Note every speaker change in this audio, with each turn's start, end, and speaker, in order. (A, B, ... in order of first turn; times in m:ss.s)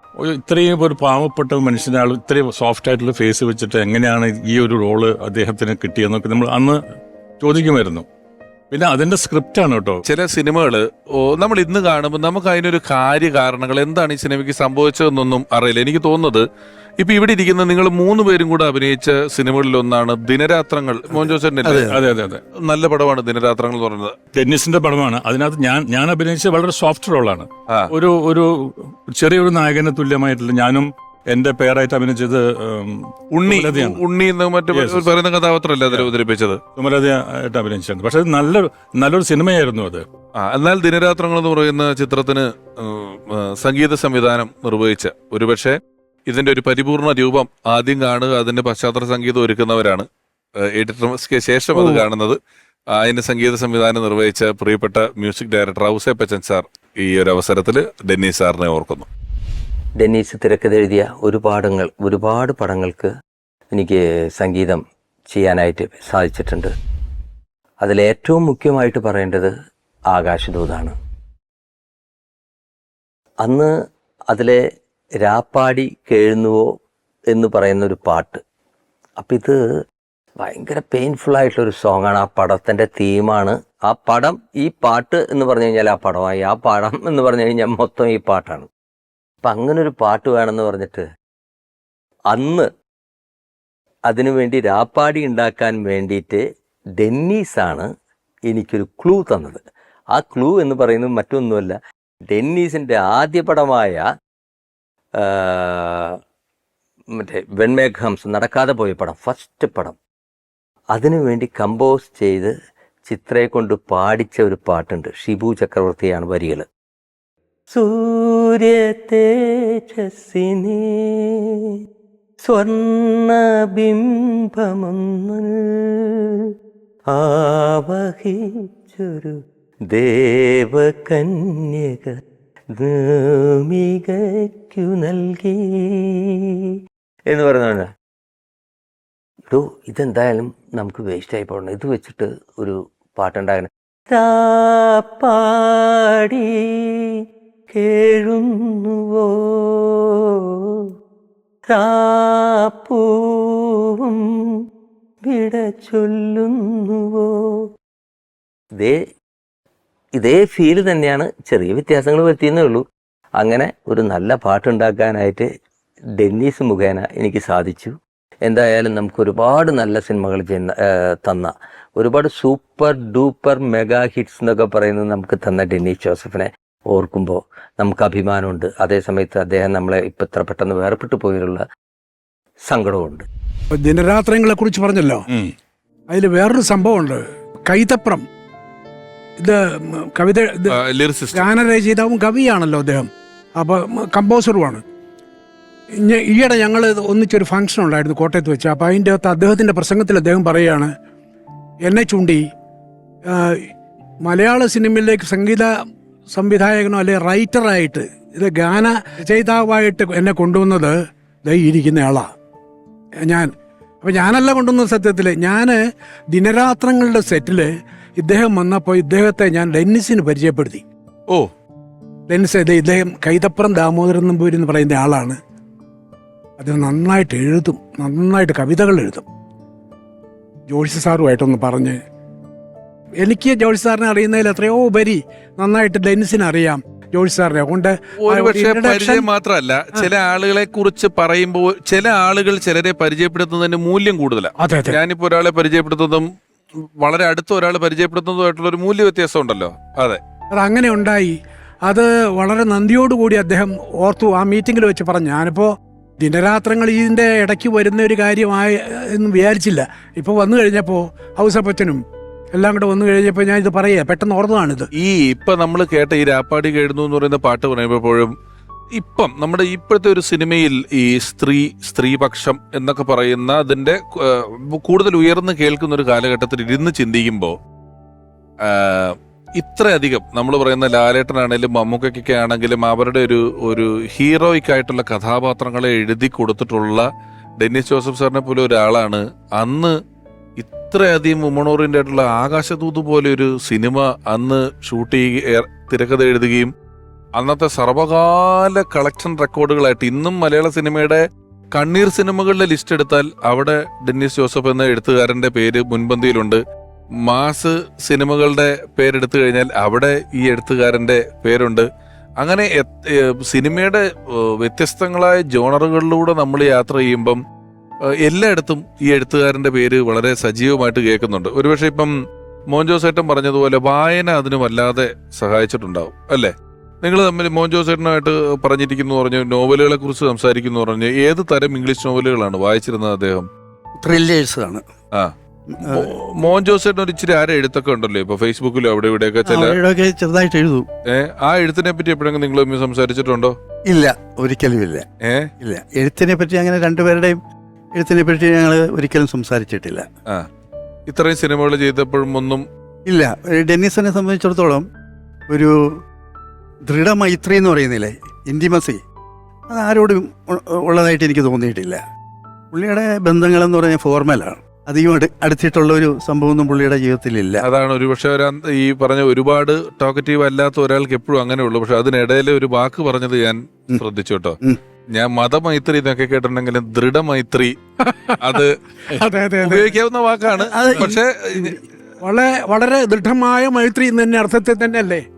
0:00.2-0:06.8 A
0:07.4-0:08.1 A
0:08.7-0:10.0 A
0:10.0-0:16.4 B
0:17.0-0:21.9 B
0:21.1-0:22.0 C
0:21.8-0:22.4 A
0:22.6-0:24.1 B
0:24.3-0:34.0 A
0:33.3-0:36.6 B
0:34.7-0:35.1 A
0:36.8-0:40.0 A
0:40.4-0:45.8 B
0:46.3-0:50.0 B
0:50.7-0:52.4 B
0:53.0-0:59.1 B
1:00.0-1:03.1 D
1:03.7-1:06.7 D
1:07.8-1:09.5 D
1:10.1-1:10.9 D
1:13.4-1:13.7 D
1:14.3-1:14.6 D
1:15.2-1:16.7 D
1:17.3-1:18.4 D
1:19.2-1:19.6 D
1:20.4-1:28.7 D
1:29.4-1:31.0 D
1:32.3-1:32.7 D
1:34.1-1:36.4 D
1:37.0-1:37.9 D
1:38.5-1:39.6 D
1:40.1-1:41.8 D
1:42.3-1:44.0 D
1:45.2-1:46.2 D
1:47.2-1:50.0 D
1:50.9-1:52.5 D
1:53.1-1:56.6 D
1:57.7-2:01.8 D
2:02.4-2:06.5 D
2:07.1-2:09.4 D
2:09.9-2:12.2 D
2:12.7-2:16.5 D
2:17.3-2:17.9 D
2:19.5-2:27.2 D
2:27.7-2:30.9 D
2:31.7-2:34.2 D
2:35.3-2:37.7 D
2:40.2-2:42.8 D
2:43.4-2:45.5 D
2:46.2-2:47.9 D
2:48.4-3:01.6 D
3:02.7-3:03.2 D
3:03.8-3:05.2 E
3:06.1-3:08.2 E
3:10.2-3:10.8 E
3:10.7-3:11.4 B
3:11.3-3:13.1 E
3:13.6-3:14.8 E
3:16.1-3:20.9 E
3:21.9-3:22.4 E
3:24.2-3:25.7 E
3:26.3-3:30.9 E
3:31.5-3:32.2 E
3:34.0-3:35.8 E
3:36.3-3:40.8 E
3:42.3-3:45.4 E
3:46.6-3:49.2 E
3:50.7-3:52.0 E
3:53.2-3:59.3 E
3:58.2-4:06.3 B
4:04.6-4:05.0 E
4:07.0-4:10.2 B
4:10.6-4:11.3 E
4:11.9-4:15.7 E
4:16.2-4:22.0 E
4:22.6-4:24.9 E
4:25.0-4:28.3 B
4:29.0-4:37.5 B
4:38.6-4:47.0 B
4:47.6-4:49.9 B
4:50.6-4:56.7 B
4:57.4-5:01.2 B
5:01.7-5:06.6 B
5:07.2-5:11.9 B
5:12.4-5:17.4 B
5:18.2-5:22.1 B
5:22.7-5:26.5 B
5:27.0-5:33.5 B
5:34.0-5:34.8 C
5:35.2-5:39.8 B
5:35.7-5:36.1 C
5:39.5-5:40.8 C
5:41.1-5:43.5 B
5:43.9-5:45.0 C
5:45.2-5:45.5 B
5:45.6-5:47.4 C
5:48.0-5:50.0 C
5:51.1-5:52.6 B
5:53.1-5:54.8 C
5:55.5-5:55.8 C
5:56.9-5:59.0 C
5:59.7-6:02.0 C
6:02.7-6:07.6 C
6:07.6-6:14.6 B
6:15.1-6:17.7 B
6:18.1-6:18.4 E
6:18.4-6:18.7 B
6:19.1-6:19.9 E
6:19.6-6:21.8 B
6:20.5-6:21.2 C
6:22.2-6:25.2 E